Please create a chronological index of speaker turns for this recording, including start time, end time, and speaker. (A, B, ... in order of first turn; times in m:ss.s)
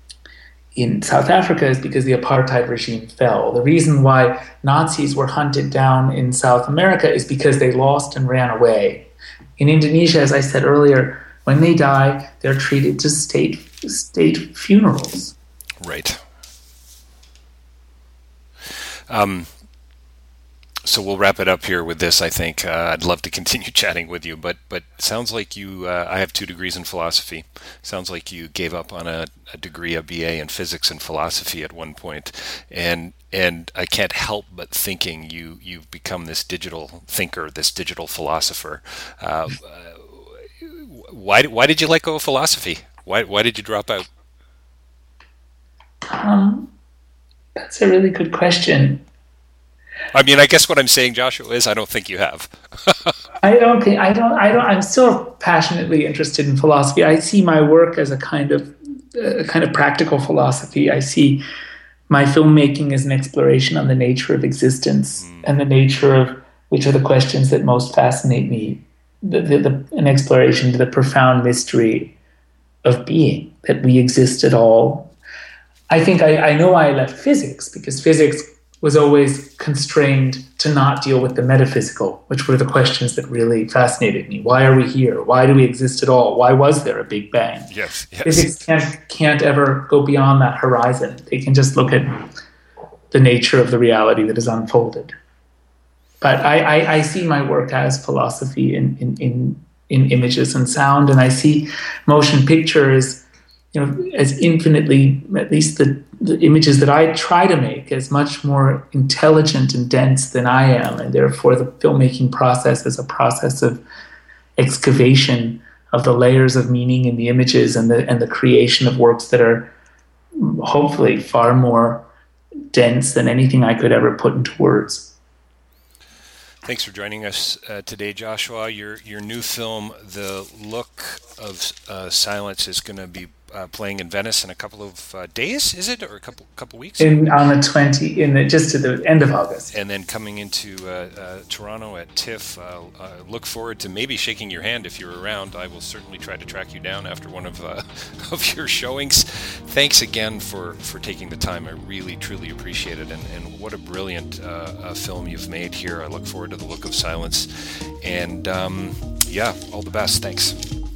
0:00.7-0:15.3 A
0:15.8-0:16.2 B
0:18.7-0:19.5 B
0:20.8-0:44.1 B
0:46.0-0:46.7 A
0:47.6-0:49.0 A
0:50.1-0:53.2 B
0:53.4-1:01.4 A
1:02.1-1:12.1 A
1:05.2-1:05.5 B
1:12.8-1:15.1 A
1:15.9-1:27.7 A
1:27.7-1:28.6 B
1:28.2-1:32.3 A
1:33.1-1:35.1 A
1:36.2-1:53.8 A
1:54.6-1:59.7 A
2:00.4-2:02.1 A
2:02.7-2:05.1 A
2:06.6-2:17.3 B
2:17.0-2:19.7 A
2:19.7-2:40.6 B